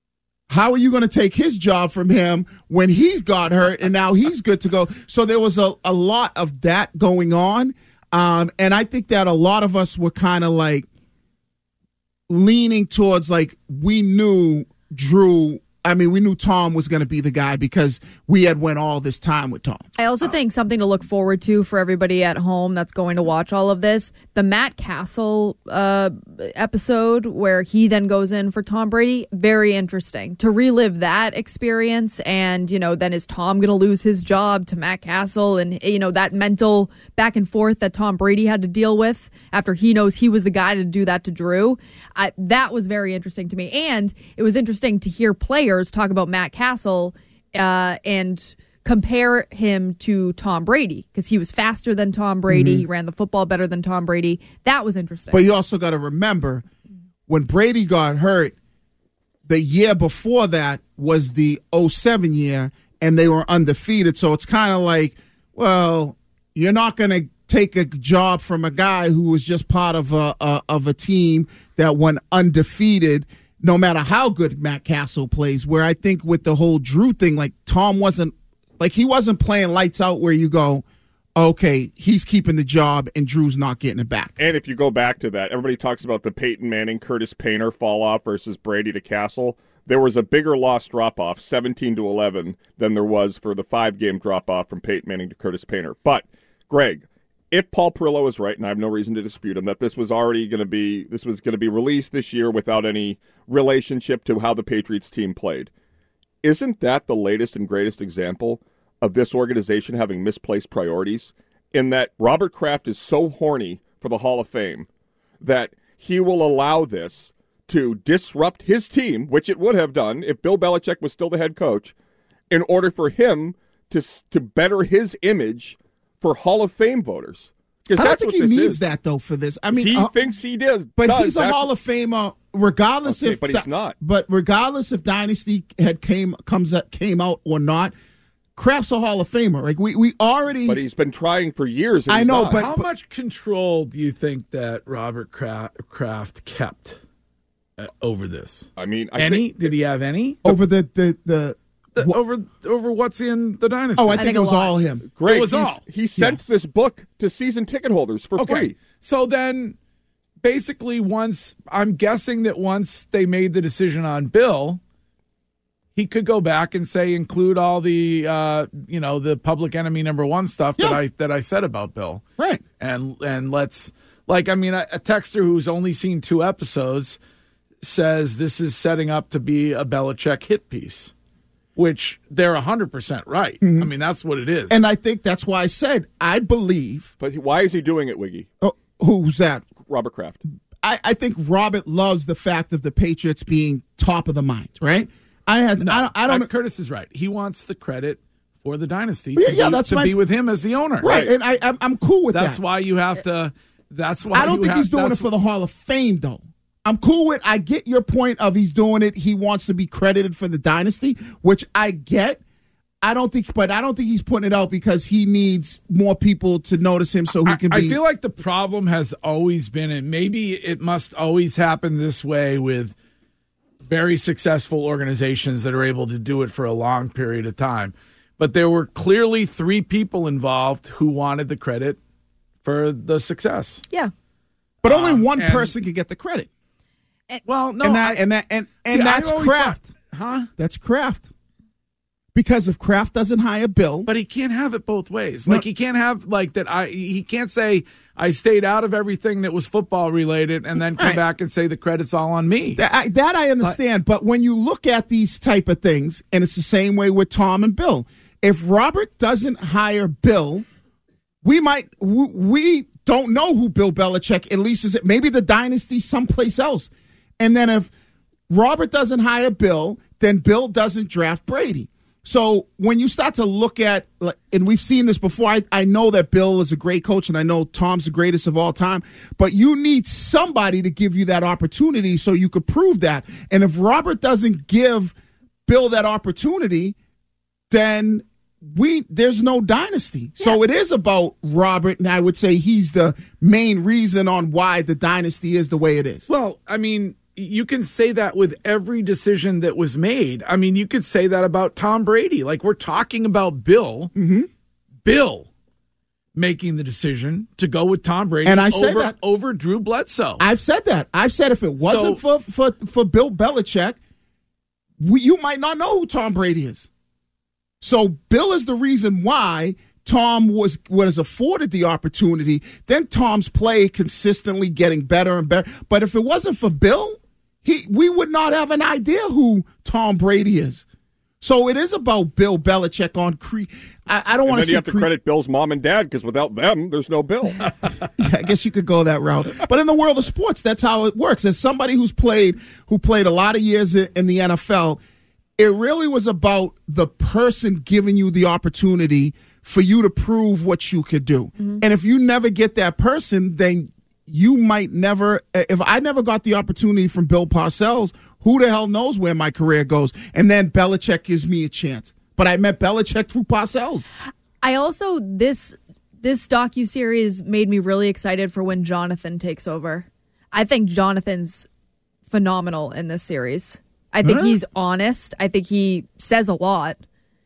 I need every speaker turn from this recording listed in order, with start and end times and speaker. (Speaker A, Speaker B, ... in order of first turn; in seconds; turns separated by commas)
Speaker A: 0.5-10.9, Speaker A: 12.3-19.9, Speaker B: 20.0-55.5, Speaker A: 52.5-52.9, Speaker A: 55.3-56.6, Speaker A: 57.3-58.5, Speaker A: 59.5-80.8, Speaker A: 81.4-84.4, Speaker C: 84.4-105.7, Speaker C: 106.4-114.9, Speaker C: 115.4-121.9, Speaker C: 122.5-128.8, Speaker A: 127.9-130.1, Speaker C: 129.8-131.7, Speaker A: 131.0-137.9, Speaker C: 133.1-134.0, Speaker A: 138.6-140.8, Speaker C: 140.7-142.6, Speaker A: 142.1-142.9, Speaker D: 142.5-147.0, Speaker D: 147.8-150.6, Speaker C: 148.8-149.7, Speaker A: 150.4-152.2, Speaker D: 152.0-154.2, Speaker A: 154.0-155.1, Speaker B: 154.1-154.7, Speaker C: 155.2-158.8, Speaker D: 155.2-155.8, Speaker A: 156.2-156.4, Speaker D: 158.4-159.8, Speaker D: 160.4-164.8, Speaker D: 165.9-172.2, Speaker D: 172.8-177.2, Speaker D: 177.8-181.1, Speaker D: 181.8-184.8, Speaker A: 183.6-183.9, Speaker A: 184.7-187.1, Speaker C: 187.2-188.5, Speaker A: 188.6-189.7, Speaker C: 189.9-190.4, Speaker A: 190.8-196.5, Speaker D: 195.8-201.2, Speaker A: 199.4-200.2, Speaker A: 201.0-202.6, Speaker C: 201.0-201.3, Speaker D: 202.3-205.2, Speaker A: 204.3-212.4, Speaker A: 213.0-218.0, Speaker D: 217.4-222.9, Speaker D: 223.8-232.0, Speaker D: 232.6-233.8, Speaker D: 234.8-235.7, Speaker A: 234.8-236.5, Speaker D: 237.5-238.2, Speaker A: 237.8-239.9, Speaker D: 238.9-240.5, Speaker A: 240.6-241.3, Speaker A: 242.3-244.1, Speaker D: 244.1-252.8, Speaker A: 251.0-251.2, Speaker A: 252.8-260.7, Speaker A: 261.4-267.9, Speaker A: 268.5-285.1, Speaker A: 285.7-287.0, Speaker A: 287.7-296.3, Speaker D: 296.3-304.1, Speaker A: 304.1-304.5, Speaker D: 305.1-305.5, Speaker D: 306.4-310.4, Speaker A: 308.4-309.2, Speaker A: 310.4-314.0, Speaker D: 311.8-312.2, Speaker A: 315.0-316.9, Speaker A: 317.8-330.9, Speaker A: 331.4-335.1, Speaker C: 334.5-337.7, Speaker A: 338.2-345.0, Speaker A: 345.6-364.1, Speaker B: 364.6-371.7, Speaker B: 372.3-377.0, Speaker A: 374.2-374.6